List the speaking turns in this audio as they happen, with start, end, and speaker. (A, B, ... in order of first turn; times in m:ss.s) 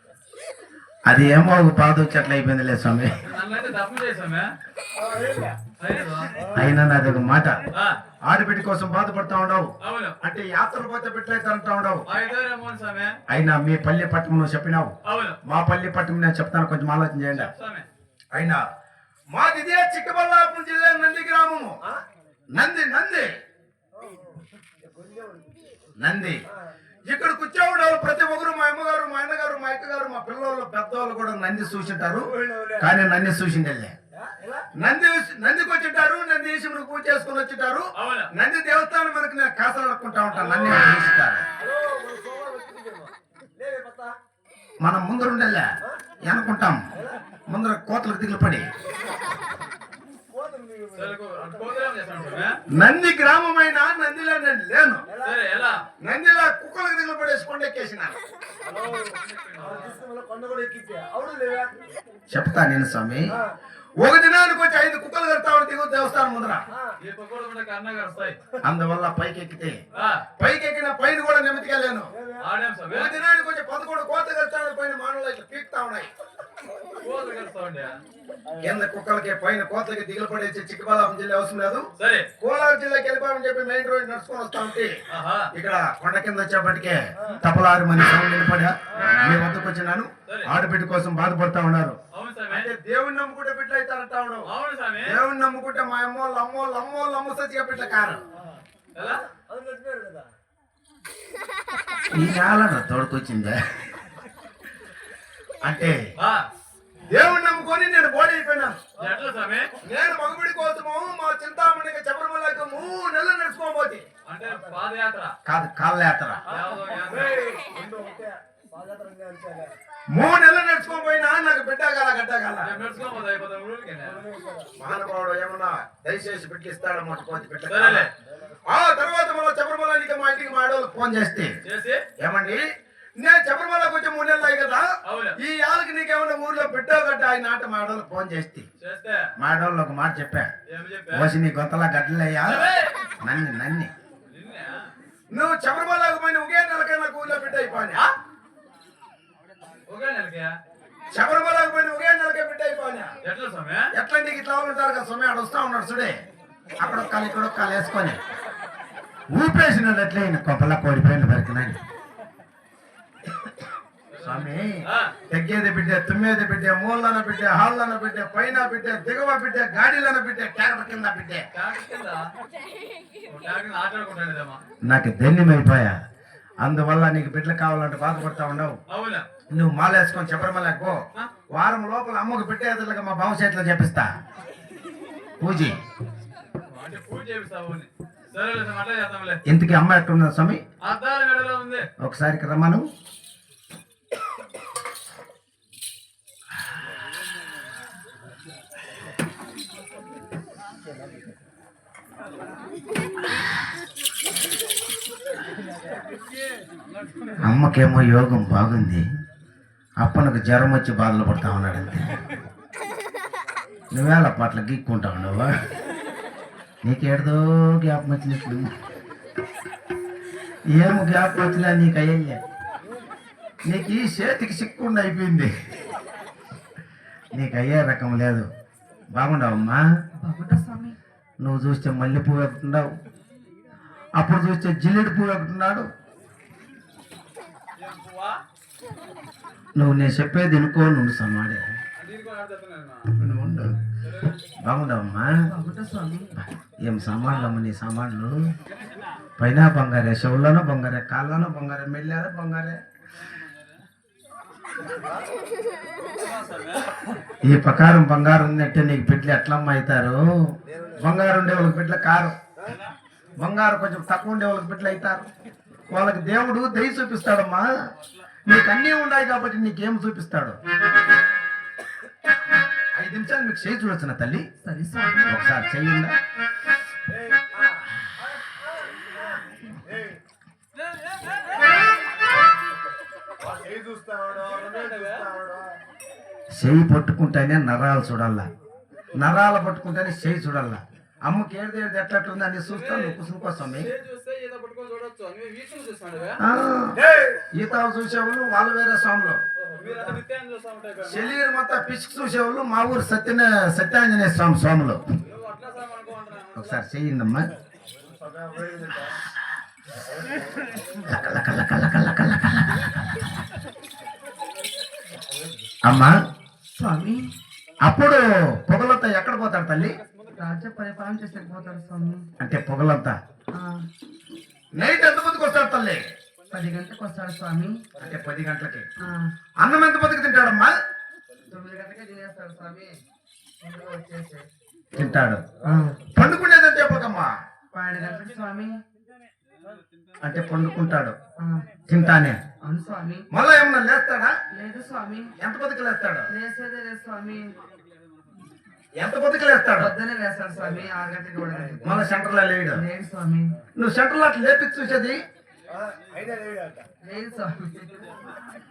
0:01.0-0:03.1 A
0:03.2-0:04.5 B
0:05.0-0:05.6 C
0:05.8-0:06.3 B
0:06.5-0:07.6 A
0:08.3-0:09.7 A
0:09.8-0:10.2 B
0:10.2-0:12.0 A
0:12.1-0:13.1 B
0:13.3-0:14.9 A
0:15.0-0:15.4 B
0:15.4-0:17.5 A
0:17.3-0:17.9 B
0:18.3-0:18.6 A
0:19.3-0:21.8 A
0:22.5-0:23.3 A
0:24.0-0:25.5 C
0:26.0-0:26.4 A
0:27.1-0:33.9 A
0:32.1-0:32.9 C
0:34.1-0:34.7 C
0:34.8-0:41.4 A
0:38.0-0:38.3 B
0:41.6-0:44.1 C
0:44.8-0:45.7 A
0:46.2-0:46.8 A
0:47.5-0:48.7 A
0:50.3-0:52.4 C
0:50.9-0:52.5 B
0:52.8-0:55.0 A
0:55.1-0:55.4 C
0:55.2-0:55.8 B
0:56.0-0:58.2 A
0:58.6-1:01.7 C
0:58.9-1:00.0 B
1:02.3-1:03.3 A
1:04.0-1:06.6 A
1:07.0-1:08.4 B
1:08.6-1:09.8 A
1:10.0-1:10.2 B
1:10.4-1:12.1 A
1:12.1-1:12.4 C
1:12.4-1:13.1 B
1:12.9-1:16.1 A
1:17.0-1:18.0 B
1:18.5-1:18.7 C
1:18.6-1:21.8 A
1:22.0-1:22.2 B
1:22.4-1:24.9 A
1:25.1-1:25.5 B
1:25.5-1:32.0 A
1:32.1-1:32.7 B
1:32.5-1:34.5 A
1:34.5-1:35.2 B
1:35.0-1:38.2 A
1:38.4-1:40.3 C
1:39.0-1:39.2 B
1:42.1-1:44.0 A
1:45.6-1:46.0 A
1:47.1-1:48.8 A
1:49.0-1:49.7 B
1:49.8-1:54.0 A
1:54.2-1:55.3 B
1:54.4-1:54.7 C
1:55.4-1:56.4 A
1:56.5-1:57.4 B
1:56.5-1:59.7 C
2:00.1-2:02.7 A
2:02.6-2:04.2 B
2:04.0-2:04.7 C
2:04.8-2:08.1 A
2:07.7-2:08.1 B
2:08.2-2:08.6 C
2:08.7-2:11.5 A
2:11.6-2:12.0 B
2:12.2-2:12.6 A
2:13.2-2:14.9 A
2:15.0-2:15.4 B
2:15.4-2:18.6 A
2:18.8-2:19.3 B
2:19.4-2:20.5 A
2:20.7-2:21.3 B
2:21.1-2:22.7 A
2:22.4-2:22.9 B
2:23.2-2:23.9 A
2:24.3-2:24.8 B
2:25.3-2:28.0 A
2:29.9-2:30.5 B
2:31.1-2:33.1 A
2:33.2-2:33.9 B
2:33.9-2:36.2 A
2:36.8-2:38.2 A
2:39.3-2:41.8 A
2:44.1-2:45.1 B
2:44.2-2:51.4 A
2:51.5-2:52.2 B
2:53.3-2:54.6 B
2:54.8-2:55.9 A
2:56.6-2:58.8 A
2:58.9-2:59.2 B
2:59.5-3:01.0 A
3:01.5-3:04.1 A
3:05.4-3:05.8 A
3:06.6-3:09.4 B
3:09.4-3:10.6 A
3:10.8-3:11.8 B
3:12.0-3:12.8 A
3:27.4-3:29.0 A
3:30.0-3:32.2 A
3:33.9-3:35.5 A
3:36.8-3:38.7 A
3:40.7-3:42.4 A
3:43.7-3:45.5 A
3:47.3-3:48.5 A
3:49.1-3:49.8 A
3:50.2-3:51.0 D
3:51.4-3:52.9 A
3:54.2-3:55.9 A
3:57.8-3:58.4 B
3:59.8-4:01.6 A
4:02.0-4:03.1 B
4:03.1-4:03.8 A
4:04.0-4:04.4 B
4:04.6-4:05.3 A
4:05.5-4:06.3 D
4:06.8-4:08.4 A
4:09.4-4:12.8 A
4:13.2-4:13.7 B
4:16.1-4:16.9 B
4:17.4-4:20.2 A
4:20.7-4:21.1 C
4:21.0-4:22.4 A
4:23.4-4:25.3 A
4:25.9-4:27.6 A
4:28.4-4:30.6 A
4:33.0-4:34.4 A
4:34.6-4:35.4 D
4:35.3-4:36.1 A
4:37.1-4:40.2 C
4:43.4-4:45.7 C
4:44.4-4:45.2 B
4:46.6-4:48.5 A
4:49.2-4:53.9 A
4:52.7-4:56.4 B
4:56.4-4:57.0 A
4:57.0-4:57.4 C
4:57.5-4:59.4 A
4:59.6-5:00.2 C
4:59.8-5:01.3 B
5:01.0-5:05.0 A
5:05.2-5:06.8 B
5:06.6-5:07.5 A
5:08.0-5:09.2 C
5:10.0-5:11.1 C
5:11.1-5:13.5 A
5:15.3-5:15.6 C
5:15.8-5:16.1 A
5:16.8-5:17.2 D
5:17.8-5:20.0 A
5:19.8-5:20.4 B
5:20.4-5:22.2 D
5:22.4-5:23.2 A
5:24.8-5:26.0 A
5:26.5-5:27.8 D
5:28.0-5:28.9 A
5:29.6-5:30.7 A
5:31.5-5:32.9 D
5:33.6-5:34.4 D
5:34.9-5:35.4 A
5:35.7-5:36.0 D
5:36.1-5:37.3 A
5:37.7-5:38.7 D
5:40.2-5:41.2 A
5:41.9-5:42.4 A
5:42.6-5:43.3 D
5:43.3-5:44.3 A
5:44.5-5:45.3 D
5:45.4-5:46.3 A
5:46.3-5:47.5 D
5:49.0-5:49.9 A
5:49.8-5:52.1 D
5:51.8-5:52.8 A
5:52.7-5:53.5 D
5:53.8-5:55.2 A
5:55.7-5:56.9 C
5:57.0-5:58.1 D